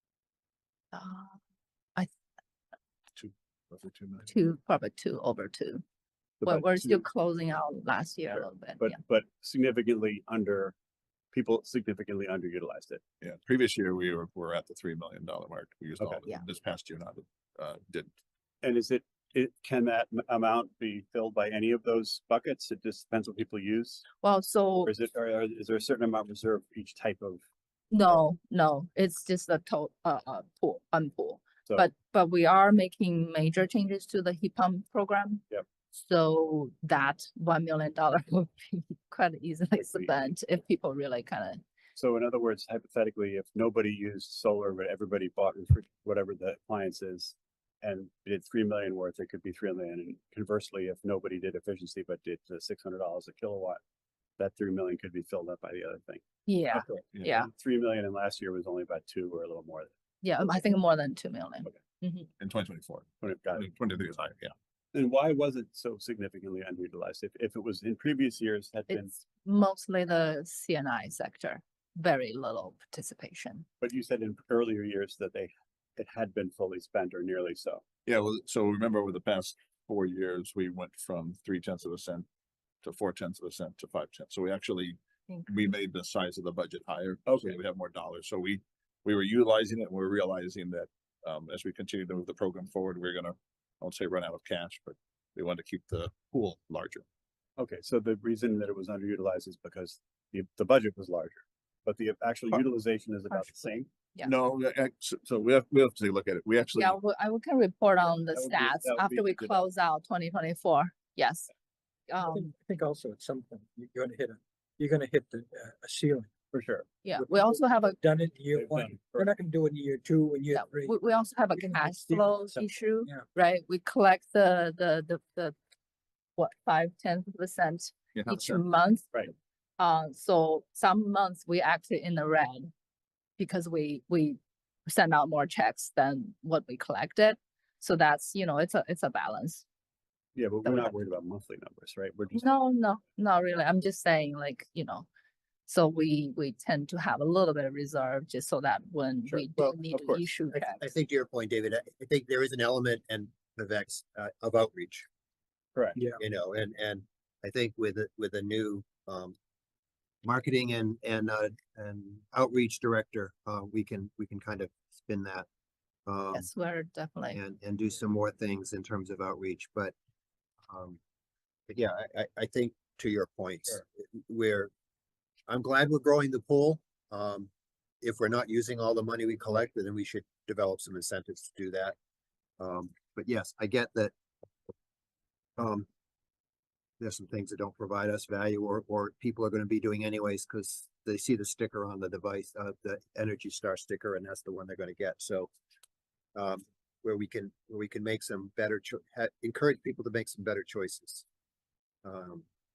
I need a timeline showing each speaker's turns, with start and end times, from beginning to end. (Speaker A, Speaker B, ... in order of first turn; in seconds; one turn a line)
Speaker A: 0.9-1.3
Speaker B: 3.1-4.3
Speaker A: 4.3-5.8
Speaker C: 6.4-7.1
Speaker A: 6.4-9.0
Speaker C: 8.3-10.8
Speaker C: 11.3-13.0
Speaker B: 13.2-18.2
Speaker C: 18.6-24.1
Speaker A: 24.2-24.9
Speaker C: 24.8-27.4
Speaker A: 27.9-41.6
Speaker C: 39.8-40.2
Speaker C: 42.0-53.8
Speaker C: 54.4-59.9
Speaker A: 56.5-57.5
Speaker A: 60.2-62.3
Speaker B: 62.4-64.5
Speaker C: 63.2-63.7
Speaker C: 64.9-69.1
Speaker A: 68.9-73.7
Speaker C: 73.8-77.8
Speaker B: 78.1-82.3
Speaker B: 82.8-97.0
Speaker C: 87.3-87.6
Speaker C: 97.6-103.9
Speaker A: 103.3-104.3
Speaker B: 104.2-107.0
Speaker A: 106.8-111.5
Speaker C: 108.3-109.5
Speaker A: 112.1-112.5
Speaker D: 112.2-116.3
Speaker C: 116.5-116.9
Speaker A: 117.0-118.0
Speaker D: 117.1-123.3
Speaker C: 118.5-119.4
Speaker A: 120.5-125.6
Speaker A: 126.4-129.1
Speaker B: 128.2-128.6
Speaker A: 129.8-132.7
Speaker A: 133.4-139.7
Speaker C: 140.3-142.5
Speaker A: 140.7-140.9
Speaker A: 142.3-145.1
Speaker A: 145.7-150.8
Speaker C: 149.3-150.3
Speaker E: 150.5-155.1
Speaker C: 155.8-156.0
Speaker E: 156.2-159.3
Speaker E: 160.2-165.5
Speaker E: 166.1-166.5
Speaker A: 166.3-167.4
Speaker E: 167.3-169.9
Speaker E: 170.7-171.0
Speaker E: 171.7-174.7
Speaker E: 175.5-177.5
Speaker E: 178.0-181.9
Speaker E: 182.6-184.1
Speaker E: 185.6-185.9
Speaker E: 187.0-195.5
Speaker E: 196.3-201.2
Speaker E: 202.0-202.4